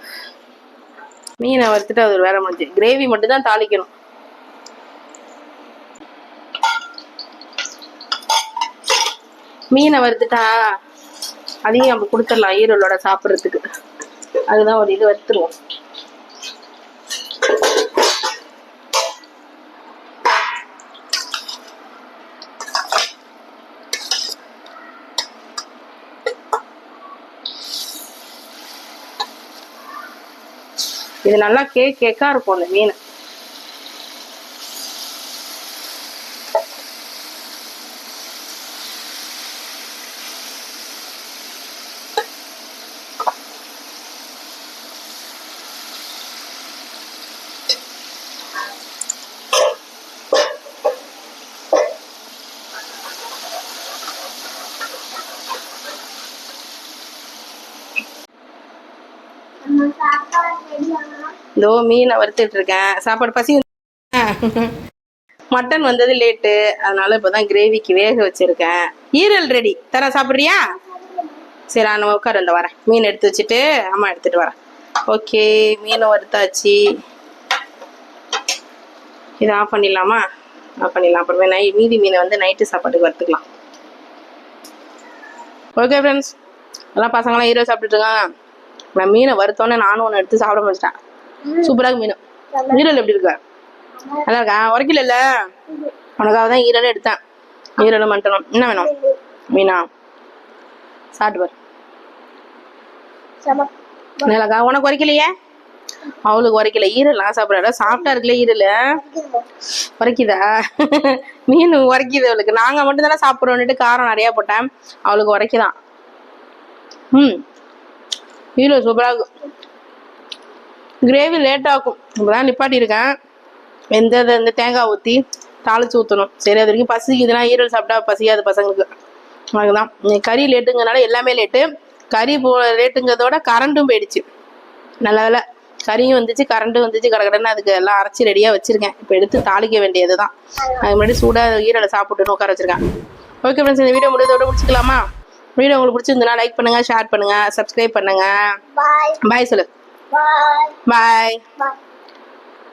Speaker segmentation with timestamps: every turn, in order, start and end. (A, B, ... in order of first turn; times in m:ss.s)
0:01.4-0:03.9 A
0:09.7-0:10.7 A
0:11.6-0:13.6 A
0:14.4-0:15.5 A
0:31.2-0:33.0 A
0:59.6-1:01.3 B
1:01.6-1:04.8 A
1:05.5-1:10.6 A
1:11.7-1:14.5 A
1:15.0-1:16.8 A
1:19.4-1:20.2 A
1:20.8-1:23.4 A
1:25.7-1:26.3 A
1:26.9-1:28.3 A
1:28.9-1:31.0 A
1:31.5-1:33.4 A
1:34.1-1:35.5 A
1:36.2-1:37.2 A
1:37.8-1:39.9 A
1:41.2-1:41.5 A
1:43.4-1:43.7 B
1:44.2-1:45.3 A
1:46.1-1:49.1 A
1:49.1-1:49.4 B
1:50.0-1:55.7 A
1:57.1-1:57.4 A
1:58.6-1:59.3 A
2:01.0-2:03.2 A
2:03.9-2:08.9 A
2:09.5-2:14.2 A
2:15.0-2:22.8 A
2:23.4-2:25.0 A
2:25.6-2:29.7 A
2:28.8-2:29.2 B
2:30.1-2:30.8 B
2:30.8-2:31.6 A